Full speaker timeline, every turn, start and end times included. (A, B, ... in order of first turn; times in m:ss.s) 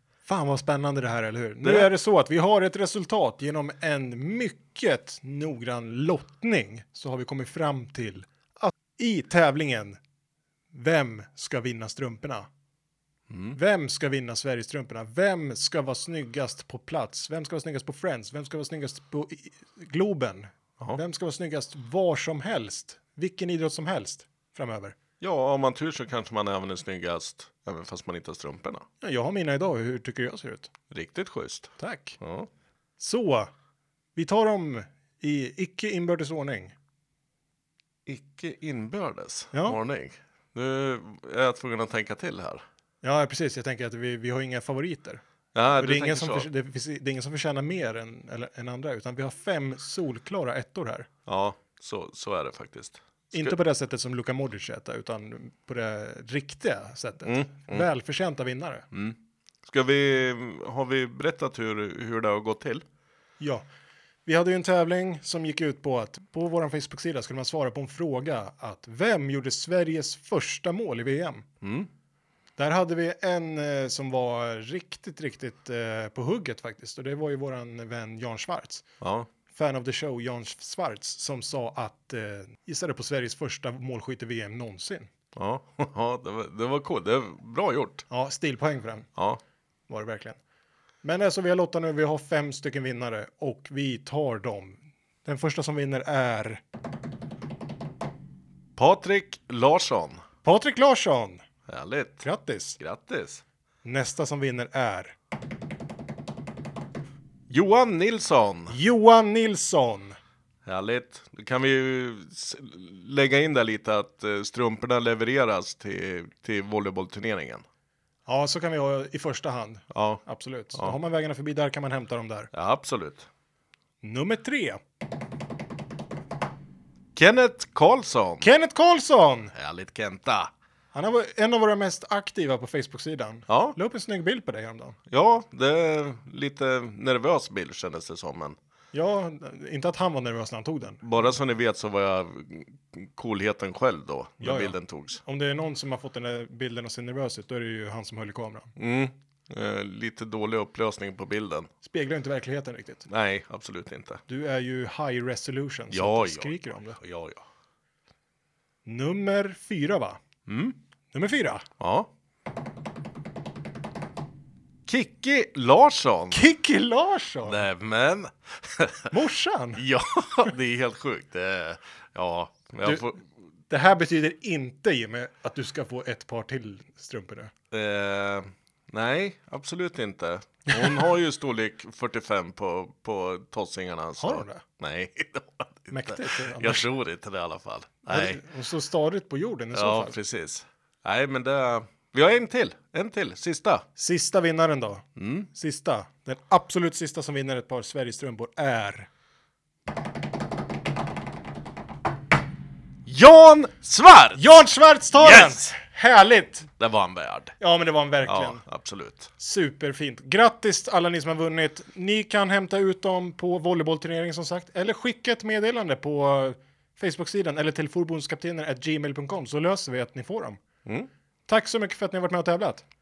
0:00.2-0:10.0 A
0:01.6-0:01.9 B
0:10.7-0:12.5 A
0:13.3-0:13.6 B
0:13.5-0:25.0 A
0:25.2-0:28.8 B
0:29.0-0:30.7 A
0:30.9-0:32.5 B
0:31.8-0:32.2 A
0:33.0-0:33.5 A
0:34.2-0:36.7 A
0:38.0-0:42.6 B
0:39.5-0:39.8 A
0:43.0-0:45.2 A
0:45.5-0:46.5 B
0:45.8-0:51.1 A
0:51.3-0:53.6 B
0:53.3-0:58.9 A
0:57.2-0:57.9 B
0:58.9-1:02.8 B
1:03.4-1:03.6 A
1:04.2-1:11.4 A
1:11.6-1:11.9 B
1:12.6-1:18.8 A
1:19.0-1:19.3 B
1:19.5-1:25.1 A
1:25.3-1:28.0 B
1:28.1-1:29.1 A
1:29.2-1:29.4 B
1:29.9-1:30.4 A
1:31.0-1:36.6 A
1:38.8-1:40.2 B
1:40.4-1:41.4 A
1:41.7-1:42.2 B
1:42.2-1:42.8 A
1:42.8-1:43.4 B
1:43.8-1:45.1 A
1:47.5-1:48.8 B
1:48.7-1:50.2 A
1:50.6-1:57.6 B
1:58.2-2:02.5 A
1:59.9-2:00.2 B
2:02.5-2:03.3 B
2:04.0-2:04.8 A
2:07.1-2:08.5 B
2:08.4-2:09.5 A
2:09.5-2:10.5 B
2:10.9-2:15.0 A
2:13.5-2:13.8 B
2:15.1-2:18.6 B
2:18.9-2:21.0 A
2:21.0-2:25.2 B
2:24.4-2:28.7 A
2:28.8-2:31.7 B
2:31.8-2:33.1 A
2:33.1-2:34.2 B
2:34.3-2:37.0 A
2:35.9-2:37.4 B
2:38.8-2:40.2 A
2:40.5-2:40.8 B
2:41.1-2:41.6 A
2:41.8-2:42.1 B
2:44.9-2:46.4 B
2:46.3-2:47.6 A
2:47.4-2:49.1 B
2:49.1-2:49.8 A
2:49.8-2:53.2 B
2:53.7-2:57.5 A
2:57.7-3:08.4 B
3:00.7-3:01.0 A
3:04.2-3:04.6 A
3:05.9-3:06.9 A
3:08.1-3:10.2 A
3:09.7-3:13.8 B
3:14.0-3:19.1 A
3:15.2-3:15.5 B
3:23.0-3:24.4 B
3:24.3-3:26.7 A
3:25.1-3:25.7 B
3:26.8-3:27.5 B
3:27.6-3:28.6 A
3:28.2-3:29.3 B
3:29.4-3:40.6 A
3:41.5-3:42.8 A